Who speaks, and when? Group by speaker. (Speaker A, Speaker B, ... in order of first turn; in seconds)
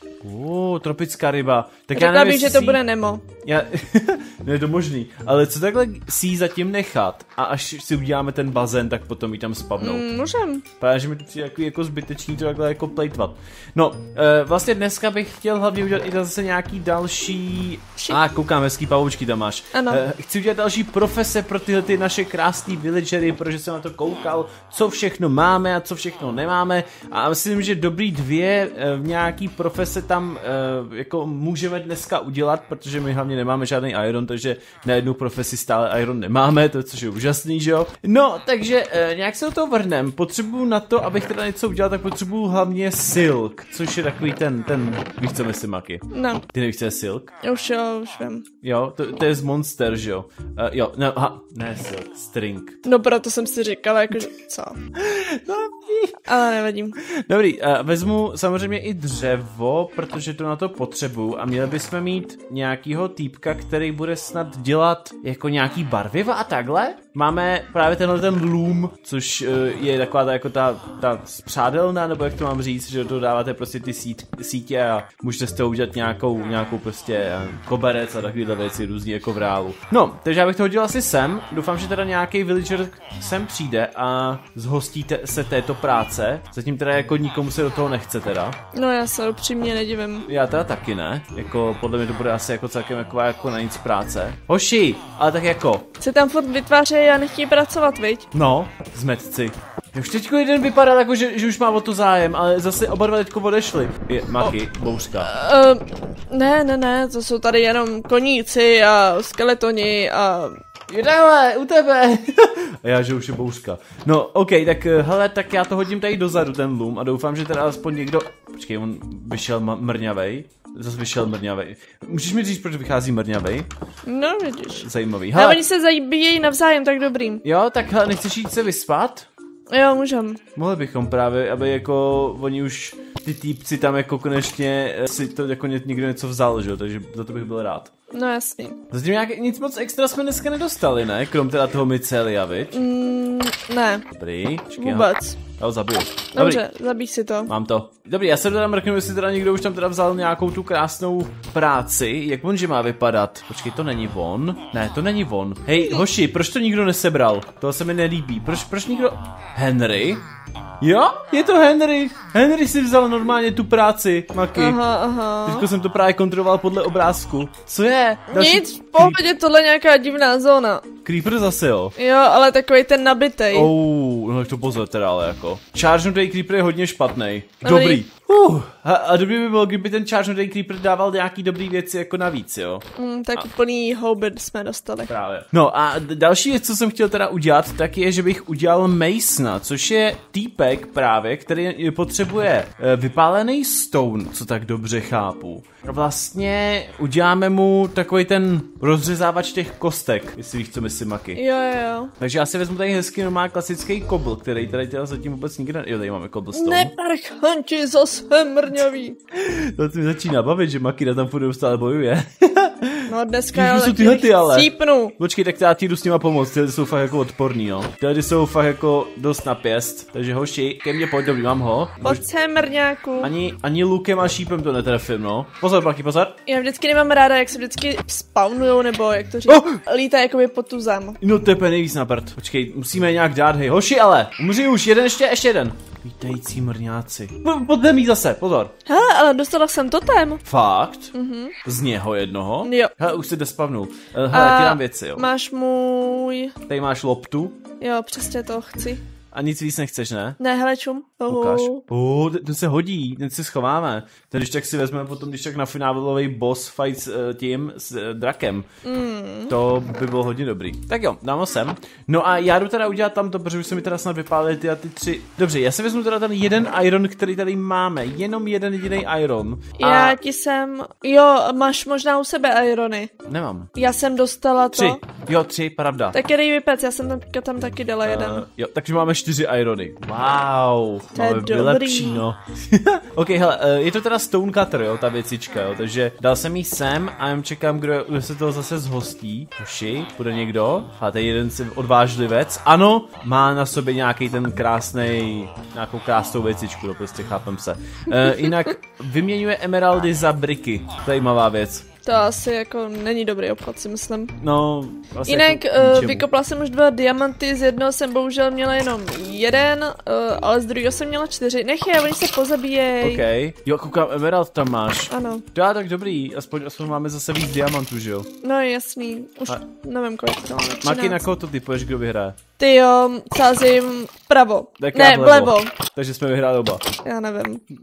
Speaker A: 0.2-2.8, 3.4-10.0, 10.8-47.3, 48.6-52.8, 55.0-56.2, 57.0-88.6, 90.3-95.9, 98.3-105.3, 110.9-123.7, 124.8-125.6, 127.4-129.3, 130.5-137.9, 138.9-142.8, 144.1-146.6, 147.5-160.2, 160.8-164.8, 165.4-169.2, 171.0-171.9, 173.5-182.8, 185.1-201.4, 202.2-206.9, 209.3-222.2, 223.2-226.4, 229.5-229.8, 231.2-238.7, 240.4-241.1, 241.6-245.3, 246.7-247.6, 249.3-250.4, 251.3-258.7, 259.5-270.2, 273.2-273.7, 274.7-276.2, 278.0-301.8, 304.4-306.3, 313.0-318.3, 320.8-322.4, 324.8-326.8
Speaker B: 1.9-3.2, 9.8-10.6, 19.7-20.0, 46.1-46.4, 47.4-48.4, 52.8-54.8, 56.3-57.0, 88.7-90.3, 96.0-98.3, 105.2-110.6, 124.0-127.4, 129.7-130.4, 138.1-138.8, 142.7-144.1, 144.8-145.4, 146.3-147.5, 164.5-165.7, 168.3-170.9, 171.9-173.7, 177.6-178.0, 182.9-185.1, 201.3-202.1, 206.5-209.2, 213.1-215.1, 222.0-223.3, 226.4-231.2, 238.8-240.4, 241.1-241.6, 242.6-242.9, 244.3-246.5, 247.8-249.0, 250.4-251.8, 258.8-259.5, 269.8-273.1, 273.7-275.0, 276.1-278.4, 281.1-282.2, 302.0-304.4, 305.2-313.2, 315.1-315.4, 318.4-321.2, 322.6-325.7, 327.0-327.6